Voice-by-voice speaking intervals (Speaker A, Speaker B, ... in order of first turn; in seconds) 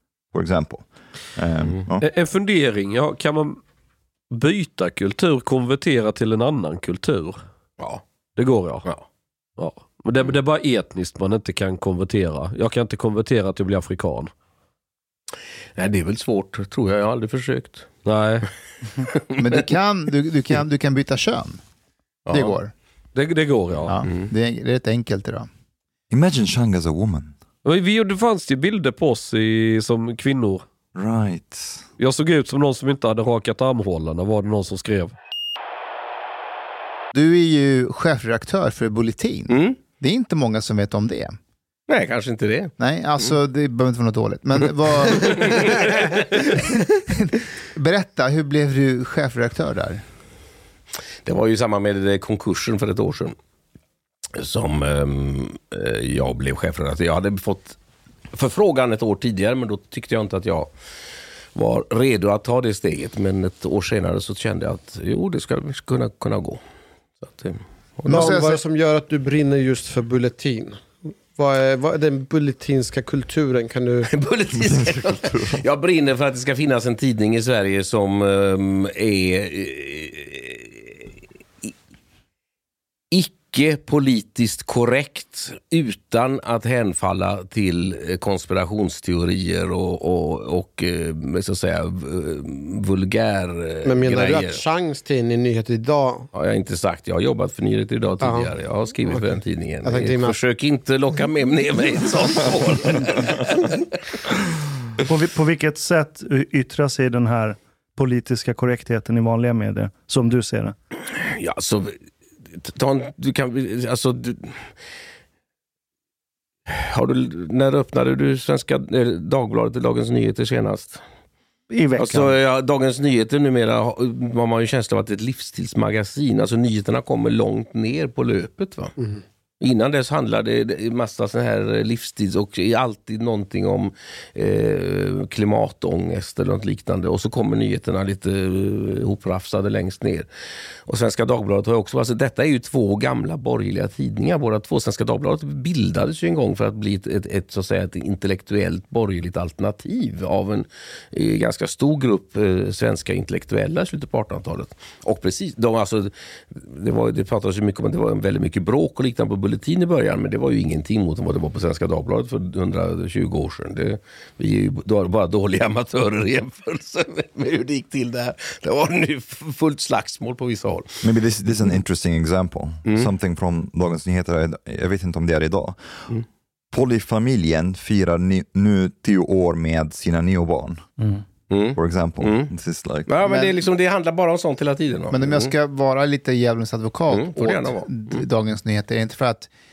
Speaker A: 0.3-2.0, 26.1-27.3, 30.9-31.9, 74.6-75.6, 171.0-176.1, 176.7-180.9, 181.7-183.1
Speaker B: 2.0-3.6, 4.3-7.4, 8.4-8.9, 9.6-14.3, 18.0-18.5, 23.1-23.9, 27.6-30.6, 32.0-35.1
Speaker C: 15.8-17.9, 22.2-22.6, 39.5-39.8, 41.9-43.2, 45.2-46.6, 51.2-53.3, 54.4-57.8, 58.3-60.7, 61.5-66.6, 67.2-68.3, 74.1-81.1, 83.1-94.6, 96.3-103.7, 111.2-112.0, 112.6-114.7, 116.7-121.0, 122.0-128.9, 129.6-140.3, 140.9-171.0, 172.8-173.1, 181.5-182.5, 183.1-185.5, 187.1-188.2
Speaker D: 19.4-21.6, 22.3-22.7, 23.9-25.5, 37.1-41.4, 42.8-50.0, 68.1-68.6, 185.1-189.5
Speaker E: 68.1-74.1, 93.8-96.3, 98.2-100.4
Speaker F: 105.0-110.7, 121.7-122.4